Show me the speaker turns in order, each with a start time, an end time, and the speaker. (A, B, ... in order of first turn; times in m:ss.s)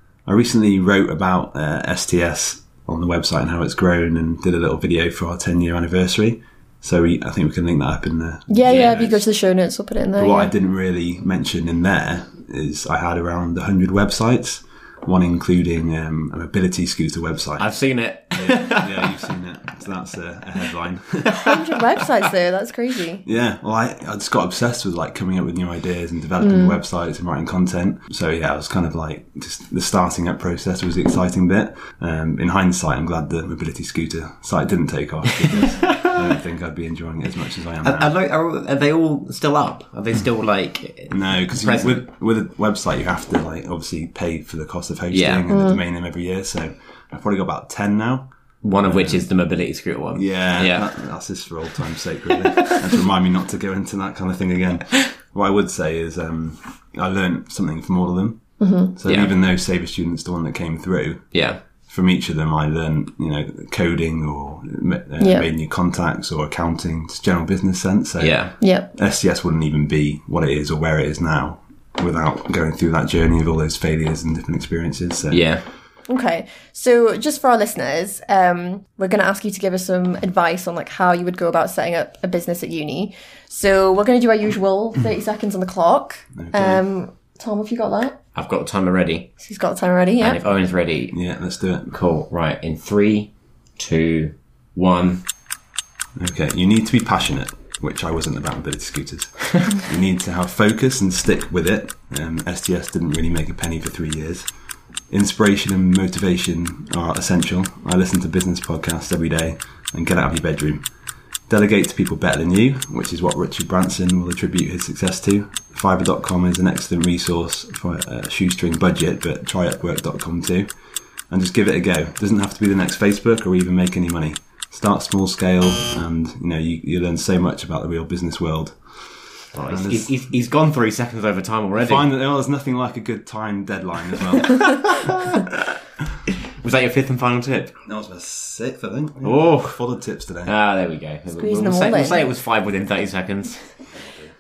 0:00.3-0:09.3 A
0:08.5-0:10.5 B
0:08.7-0:09.0 C
0:10.2-0:17.7 A
0:17.6-0:19.2 C
0:18.4-0:21.6 A
0:21.3-0:23.2 B
0:23.2-0:38.1 A
0:26.4-0:26.8 B
0:35.5-0:36.3 C
0:37.8-0:42.0 C
0:41.1-0:48.3 A
0:45.1-0:45.4 C
0:45.5-0:45.8 B
0:48.6-0:50.9 C
0:48.8-0:49.3 A
0:50.2-1:15.5 A
0:58.6-0:58.9 B
0:59.1-0:59.3 C
1:01.3-1:01.6 C
1:05.2-1:05.5 B
1:08.2-1:08.5 C
1:08.6-1:08.9 B
1:15.3-1:15.6 C
1:16.1-1:28.2 B
1:26.4-1:26.8 A
1:28.4-1:29.3 C
1:29.4-1:30.4 B
1:30.2-1:31.2 C
1:31.1-1:31.9 A
1:31.9-1:35.2 C
1:36.2-1:44.5 A
1:45.1-1:50.9 A
1:51.5-2:00.7 A
2:01.3-2:10.1 A
2:09.5-2:12.1 C
2:11.8-2:15.4 A
2:14.6-2:15.4 C
2:16.6-2:17.8 C
2:17.8-2:20.5 A
2:19.2-2:19.8 C
2:20.4-2:24.0 C
2:21.4-2:22.3 B